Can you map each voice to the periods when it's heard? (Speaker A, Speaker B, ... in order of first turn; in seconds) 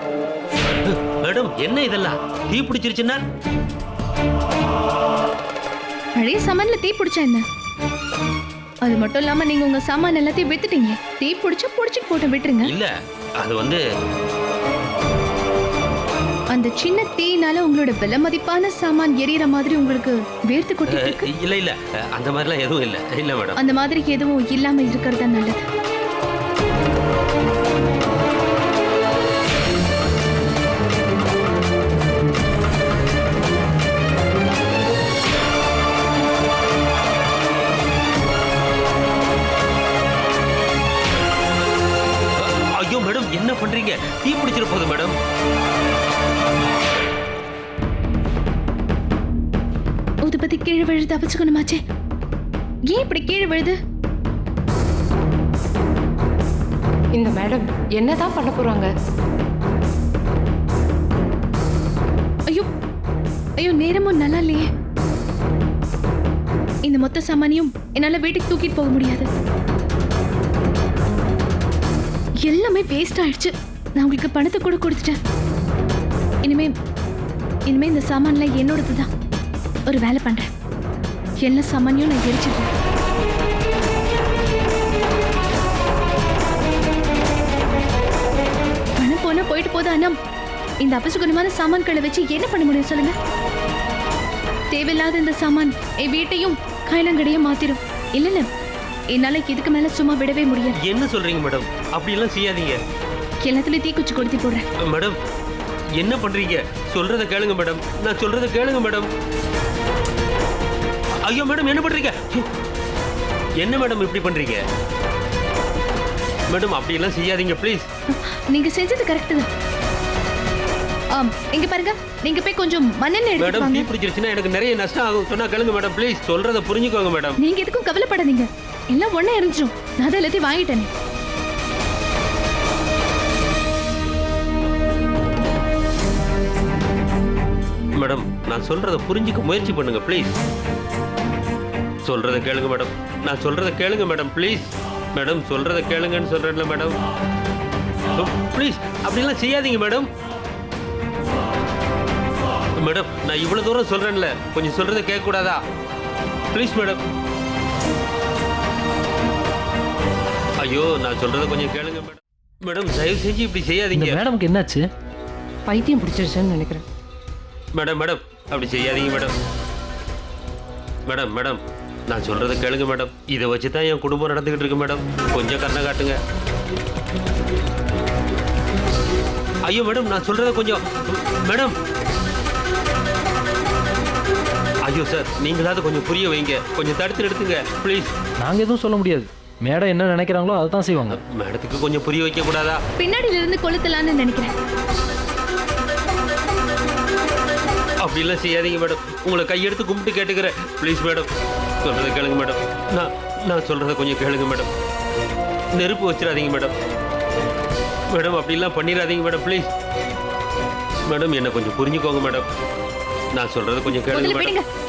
Speaker A: 0.8-3.2, 12.6-13.8, 20.9-23.6, 42.4-45.2, 100.8-102.8, 104.8-105.2, 106.0-109.1, 111.2-112.5, 113.6-114.6, 116.5-117.9, 123.4-127.4, 138.0-140.4, 142.1-147.0, 148.2-150.1, 152.8-155.6, 156.5-157.0, 160.6-164.2, 167.8-169.3, 171.1-176.2, 179.6-181.8, 184.8-188.1, 191.1-192.8, 198.0-201.3, 201.8-204.7, 205.8-206.7, 208.1-209.7, 211.1-212.5, 213.3-214.6
Speaker B: 6.2-7.4, 8.8-12.7, 16.5-21.3, 23.6-25.6, 50.2-51.8, 52.9-53.8, 63.6-64.7, 66.8-69.3, 72.4-75.2, 76.4-76.7, 77.7-79.1, 79.9-80.5, 81.4-82.7, 89.0-90.2, 90.8-93.2, 94.7-98.5, 99.1-100.8, 103.4-104.6, 118.1-119.5, 121.1-123.9, 127.4-130.9, 193.0-194.5, 213.9-214.6
Speaker C: 57.1-58.9, 165.7-166.8
Speaker D: 163.9-164.8, 188.4-191.2